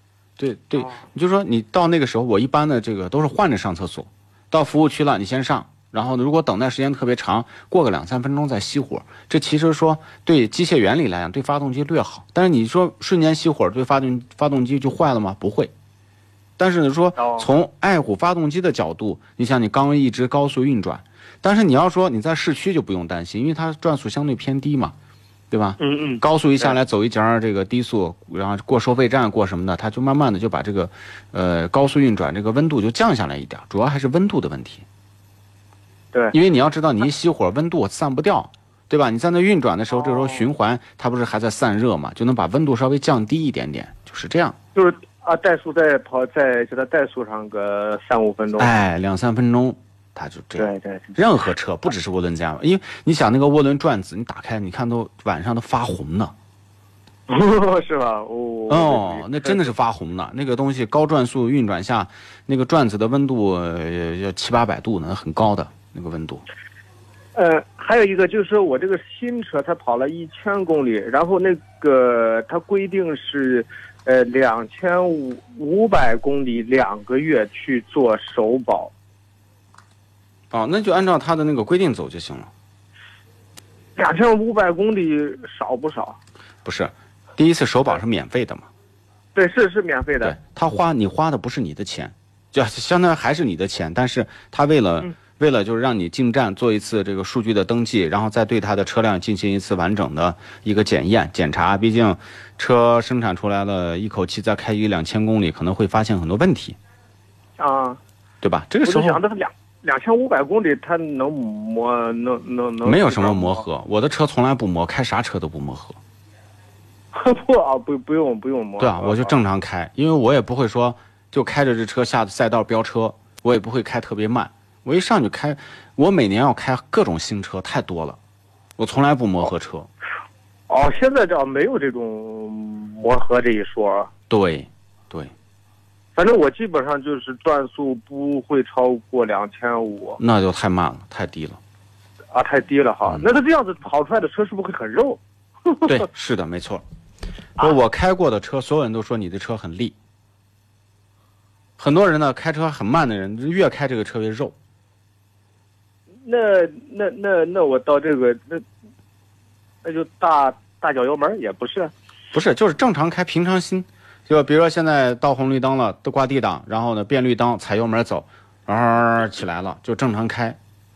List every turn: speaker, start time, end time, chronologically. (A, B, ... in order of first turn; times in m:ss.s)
0:00.4-0:15.7 A
0:00.8-0:01.0 B
0:16.6-0:25.0 A
0:17.2-0:17.5 B
0:25.5-0:34.9 A
0:25.8-0:26.8 B
0:36.3-0:44.6 A
0:39.9-0:40.5 B
0:44.8-0:48.7 B
0:48.6-0:56.3 A
0:50.6-0:51.2 B
0:57.3-0:59.7 B
0:58.7-1:06.4 A
1:07.4-1:18.9 B
1:20.5-1:22.5 A
1:24.0-1:26.2 B
1:26.6-1:28.7 A
1:29.4-1:30.4 B
1:30.2-1:46.8 A
1:47.6-1:48.0 B
1:48.4-1:49.2 A
1:48.8-1:53.6 B
1:52.8-1:56.0 A
1:57.1-1:59.3 B
1:58.8-2:08.2 A
2:08.8-2:09.9 A
2:10.7-2:14.1 B
2:14.3-2:15.3 A
2:16.2-2:20.2 B
2:20.2-2:21.6 A
2:22.3-2:25.9 B
2:25.8-2:26.8 A
2:27.6-2:30.0 A
2:31.8-2:34.5 A
2:36.2-2:38.6 B
2:39.8-2:41.9 B
2:42.3-2:50.6 A